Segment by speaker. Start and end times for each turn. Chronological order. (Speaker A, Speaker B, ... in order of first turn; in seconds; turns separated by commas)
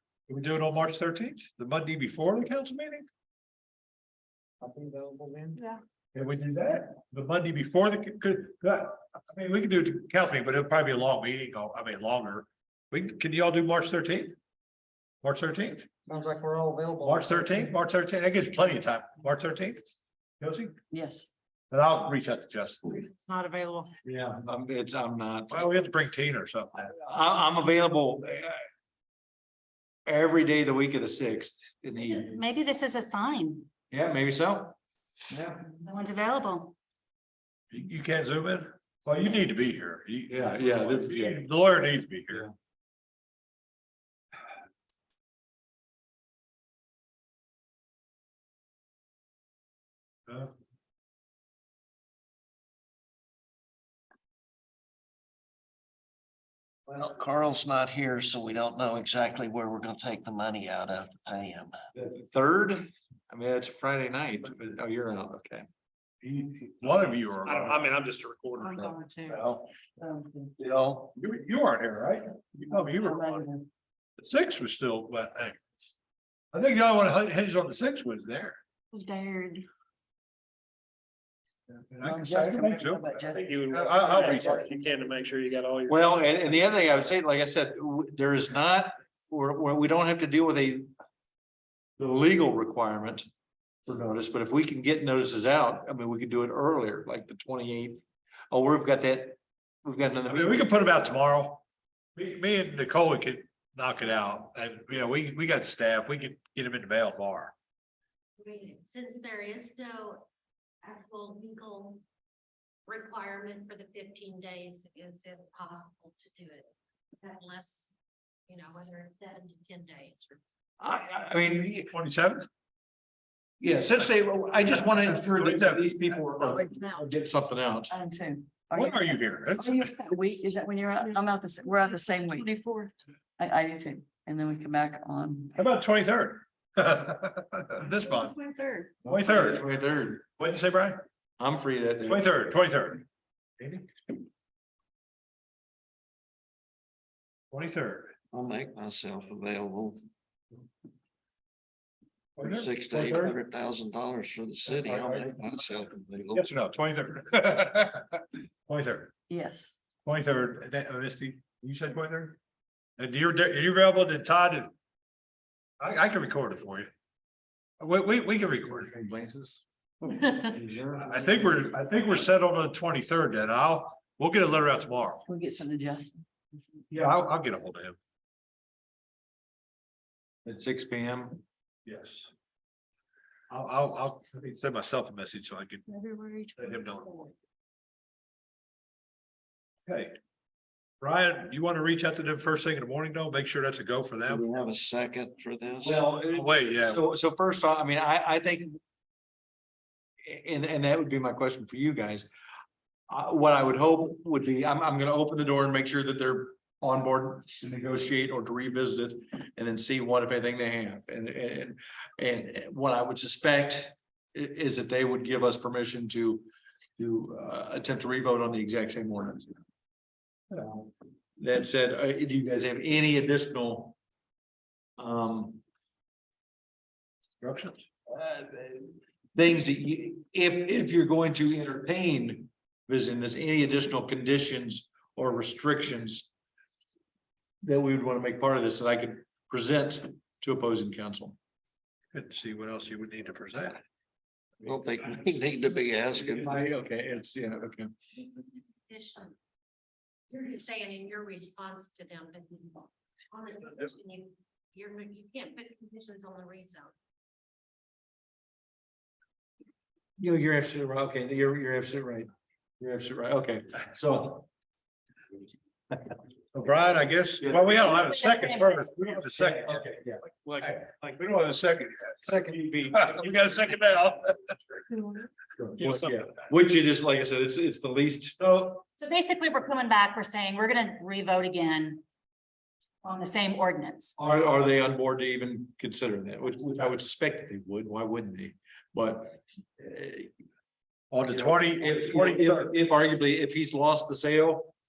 Speaker A: 0.3-3.0, Speaker B: 4.6-5.6, Speaker A: 6.1-14.3, Speaker A: 15.2-15.9, Speaker B: 16.1-17.7, Speaker A: 17.0-19.8, Speaker A: 20.4-20.7, Speaker C: 20.9-21.3, Speaker A: 21.7-22.8, Speaker D: 22.9-23.9, Speaker E: 24.0-25.7, Speaker A: 25.5-26.7, Speaker E: 26.8-28.6, Speaker E: 30.1-32.4, Speaker F: 32.0-33.7, Speaker E: 33.9-34.8, Speaker E: 35.3-35.6, Speaker F: 35.8-36.7, Speaker A: 37.7-42.5, Speaker E: 40.3-41.4, Speaker G: 56.9-61.8, Speaker E: 61.9-65.7, Speaker A: 66.2-67.8, Speaker H: 67.4-69.2, Speaker C: 68.6-69.0, Speaker G: 69.2-69.6, Speaker C: 70.0-70.5, Speaker G: 70.6-71.1, Speaker A: 71.1-73.4, Speaker C: 72.7-73.7, Speaker A: 74.2-75.6, Speaker A: 76.5-78.6, Speaker C: 78.9-79.6, Speaker A: 81.7-83.1, Speaker C: 82.0-83.4, Speaker H: 83.2-86.4, Speaker A: 83.6-84.7, Speaker E: 85.9-90.9, Speaker E: 92.0-93.2, Speaker E: 93.9-100.8, Speaker A: 100.3-101.6, Speaker A: 102.2-107.5, Speaker D: 108.4-110.3, Speaker D: 110.8-112.0, Speaker D: 112.8-117.9, Speaker D: 118.5-120.4, Speaker E: 120.8-121.9, Speaker A: 121.8-122.5, Speaker E: 123.6-127.9, Speaker A: 124.7-126.7, Speaker C: 127.9-132.5, Speaker A: 128.7-129.9, Speaker H: 131.9-132.9, Speaker C: 133.4-135.5, Speaker A: 135.6-138.3, Speaker H: 138.0-138.8, Speaker A: 139.0-139.6, Speaker E: 139.1-140.2, Speaker A: 140.4-141.0, Speaker E: 141.4-142.3, Speaker A: 142.0-143.0, Speaker A: 143.6-143.8, Speaker A: 147.5-148.1, Speaker G: 148.3-150.0, Speaker A: 152.4-153.3, Speaker G: 152.4-156.4, Speaker A: 154.8-155.3, Speaker A: 156.3-159.1, Speaker C: 159.3-159.8, Speaker A: 160.0-162.4, Speaker A: 163.0-164.7, Speaker A: 165.8-166.9, Speaker A: 167.8-168.9, Speaker E: 168.8-169.6, Speaker E: 170.2-171.8, Speaker A: 170.9-175.2, Speaker C: 175.3-176.9, Speaker A: 176.9-178.0, Speaker E: 180.4-181.4, Speaker A: 181.8-182.3, Speaker A: 183.5-185.8, Speaker A: 186.6-187.3, Speaker A: 189.8-190.2, Speaker A: 191.0-194.4, Speaker G: 194.3-196.0, Speaker E: 195.8-198.8, Speaker A: 196.3-197.0, Speaker E: 200.2-202.3, Speaker E: 203.1-216.5, Speaker E: 217.0-219.5, Speaker E: 220.6-224.0, Speaker E: 225.0-225.6, Speaker A: 227.4-227.8, Speaker E: 228.1-236.3, Speaker E: 237.6-241.4, Speaker A: 242.1-243.8, Speaker G: 244.6-246.6, Speaker E: 246.1-247.9, Speaker D: 248.1-249.3, Speaker D: 250.3-256.9, Speaker E: 260.2-262.3, Speaker E: 262.8-264.5, Speaker A: 266.5-269.9, Speaker E: 267.4-268.3, Speaker E: 269.1-271.1, Speaker A: 270.6-274.5, Speaker E: 272.4-273.3, Speaker E: 275.6-278.4, Speaker H: 275.8-276.1, Speaker A: 278.4-278.8, Speaker F: 278.7-282.0, Speaker F: 283.0-284.1, Speaker E: 284.2-290.3, Speaker A: 291.1-292.7, Speaker E: 291.3-294.7